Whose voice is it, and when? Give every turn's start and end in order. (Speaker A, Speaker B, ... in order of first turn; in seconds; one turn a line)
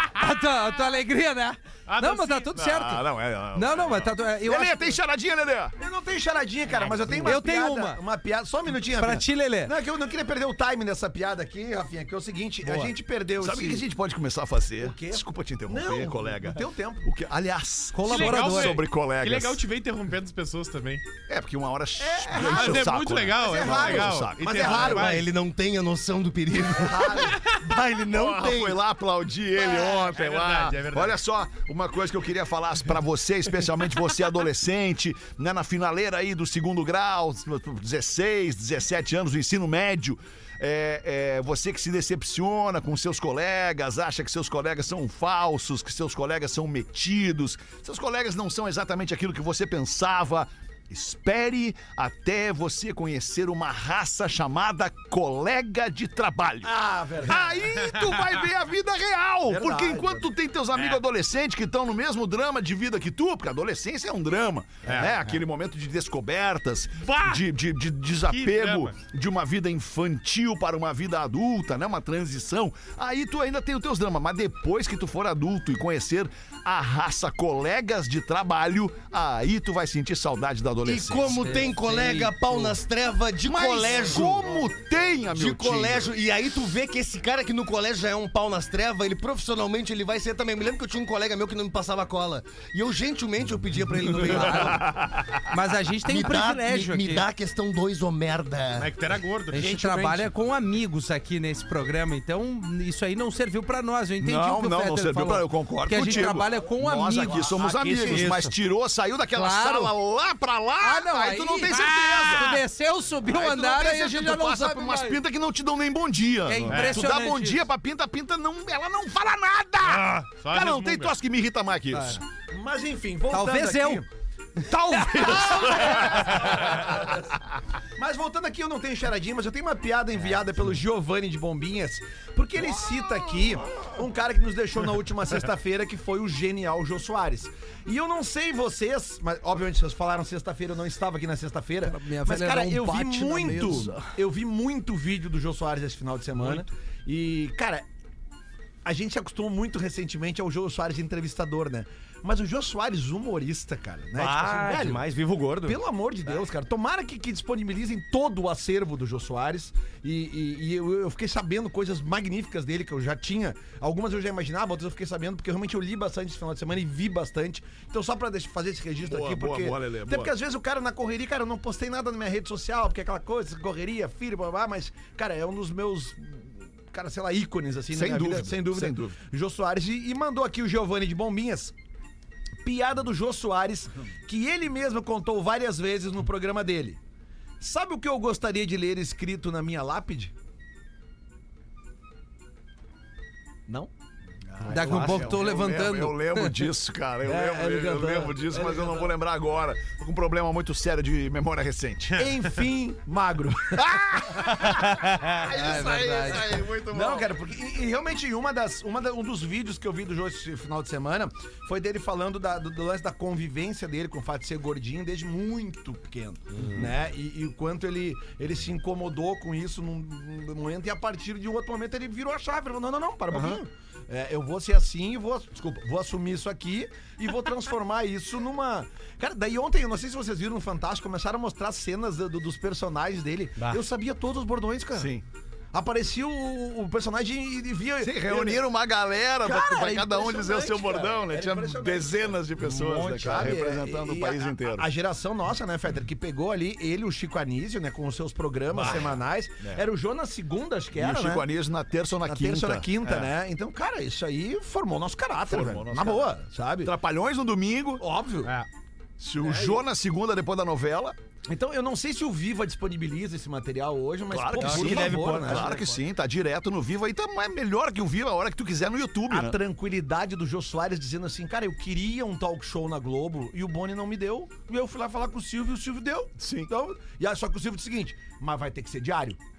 Speaker A: 0.1-5.0
Speaker B: 1.9-2.5
Speaker C: 2.5-5.7
Speaker D: 5.8-13.8
Speaker B: 6.8-7.3
Speaker A: 7.2-8.0
Speaker A: 8.9-9.7
Speaker A: 12.6-12.9
Speaker C: 13.4-19.6
Speaker D: 14.8-17.1
Speaker A: 17.9-18.8
Speaker B: 18.1-21.0
Speaker C: 21.3-25.1
Speaker D: 22.0-25.1
Speaker B: 22.4-25.2
Speaker E: 24.5-28.8
Speaker D: 26.8-27.4
Speaker C: 28.1-81.7
Speaker B: 29.9-31.2
Speaker D: 56.6-57.5
Speaker D: 59.5-60.3
Speaker B: 60.7-61.0
Speaker B: 64.8-65.1
Speaker B: 67.0-67.4
Speaker B: 68.2-68.9
Speaker E: 80.8-84.5
Speaker A: 81.3-82.7
Speaker C: 83.4-86.1
Speaker E: 85.3-94.9
Speaker A: 94.2-94.8
Speaker C: 94.6-95.3
Speaker A: 95.5-97.2
Speaker E: 96.0-98.9
Speaker B: 98.8-99.8
Speaker A: 99.5-107.5
Speaker E: 99.6-100.2
Speaker C: 104.2-112.6
Speaker E: 107.5-108.5
Speaker A: 109.3-109.9
Speaker A: 110.8-115.2
Speaker C: 113.2-122.2
Speaker A: 116.5-117.6
Speaker B: 116.7-117.0
Speaker B: 119.8-121.1
Speaker A: 121.9-122.2
Speaker D: 122.5-124.1
Speaker A: 123.3-124.0
Speaker C: 124.7-126.9
Speaker A: 124.9-125.8
Speaker D: 125.0-127.3
Speaker D: 128.0-147.8
Speaker A: 141.8-144.1
Speaker D: 148.8-155.1
Speaker E: 154.1-155.8
Speaker D: 155.6-181.7
Speaker C: 169.0-170.3
Speaker C: 177.9-179.2
Speaker D: 182.6-187.0
Speaker D: 187.6-190.3
Speaker E: 194.6-195.3
Speaker C: 194.7-202.2
Speaker A: 194.7-196.5
Speaker D: 197.2-199.1
Speaker D: 202.1-204.8
Speaker C: 203.7-207.3
Speaker A: 205.5-206.5
Speaker D: 206.8-235.1
Speaker C: 223.3-223.6
Speaker E: 233.6-233.8
Speaker C: 234.9-235.2
Speaker D: 235.7-238.6
Speaker C: 238.0-244.9
Speaker D: 239.4-242.1
Speaker E: 242.6-243.6
Speaker D: 243.1-251.5
Speaker C: 248.7-249.8
Speaker C: 250.9-253.3
Speaker D: 252.2-256.9
Speaker C: 255.5-258.0
Speaker D: 258.0-258.5
Speaker C: 259.2-261.1
Speaker D: 261.5-265.8
Speaker C: 264.3-269.6
Speaker E: 264.6-265.9
Speaker D: 269.3-279.4
Speaker C: 276.4-276.7